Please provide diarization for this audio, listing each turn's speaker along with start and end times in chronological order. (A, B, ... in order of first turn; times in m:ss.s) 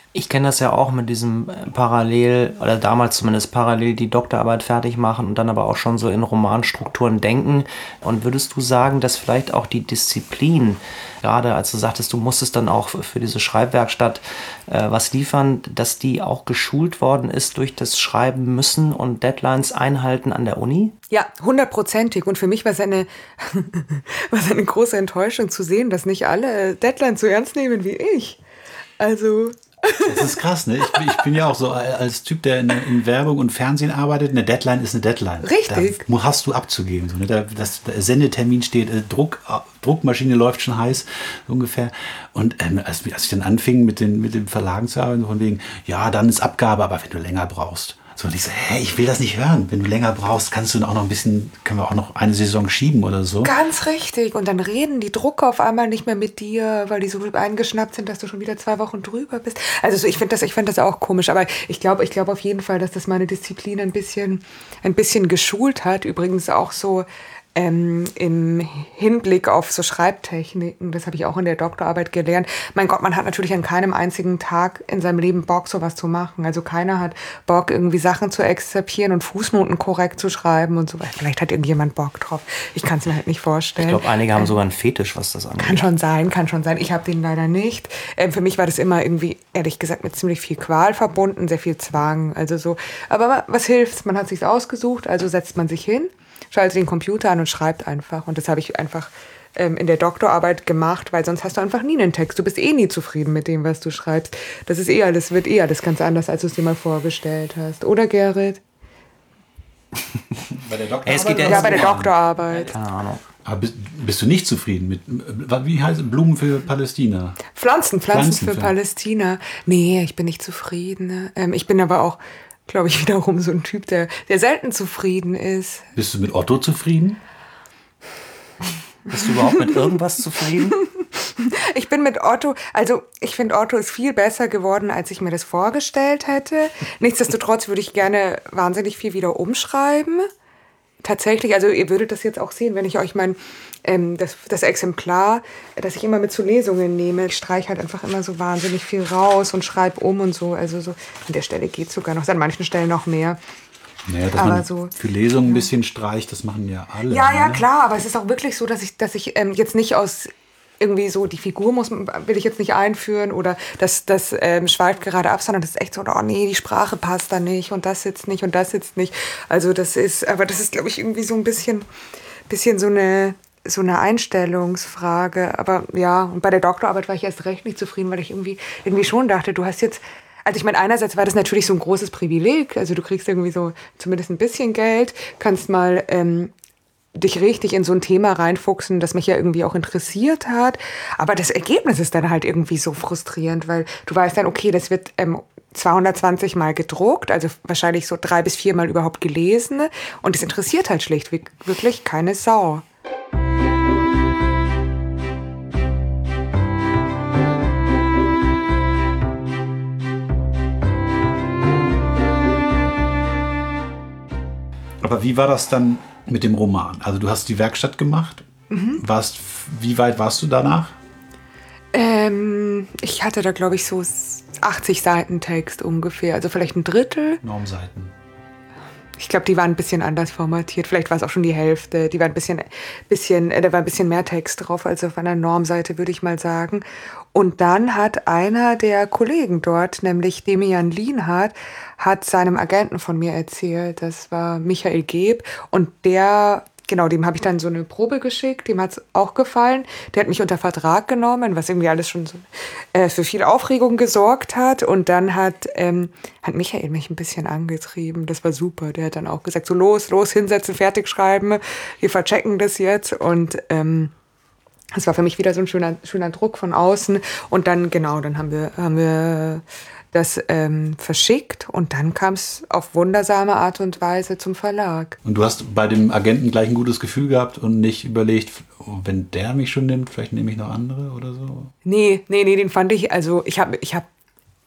0:00.1-0:20.9 A
0:21.1-0:28.4 B
0:29.0-0:30.4 B
0:30.0-0:53.5 C
0:35.4-0:36.0 B
0:53.4-1:24.5 B
1:23.8-1:25.8 A
1:25.6-1:48.6 B
1:50.5-1:52.2 C
1:51.0-1:53.2 A
1:51.2-1:52.7 B
1:53.4-1:57.4 C
1:57.5-2:05.9 B
1:58.1-1:58.8 C
2:06.0-2:07.2 C
2:09.1-2:10.8 A
2:11.4-2:20.3 B
2:21.0-2:33.4 B
2:34.1-2:37.7 C
2:34.3-2:34.9 B
2:37.1-2:51.9 B
2:52.5-3:06.5 B
3:07.2-3:22.8 B
3:35.0-3:41.0 C
3:38.7-3:39.0 B
3:41.9-3:47.4 B
3:47.4-3:48.1 C
3:49.2-4:24.1 B
4:24.9-4:35.2 B
4:35.2-4:41.7 C
4:41.8-4:44.1 B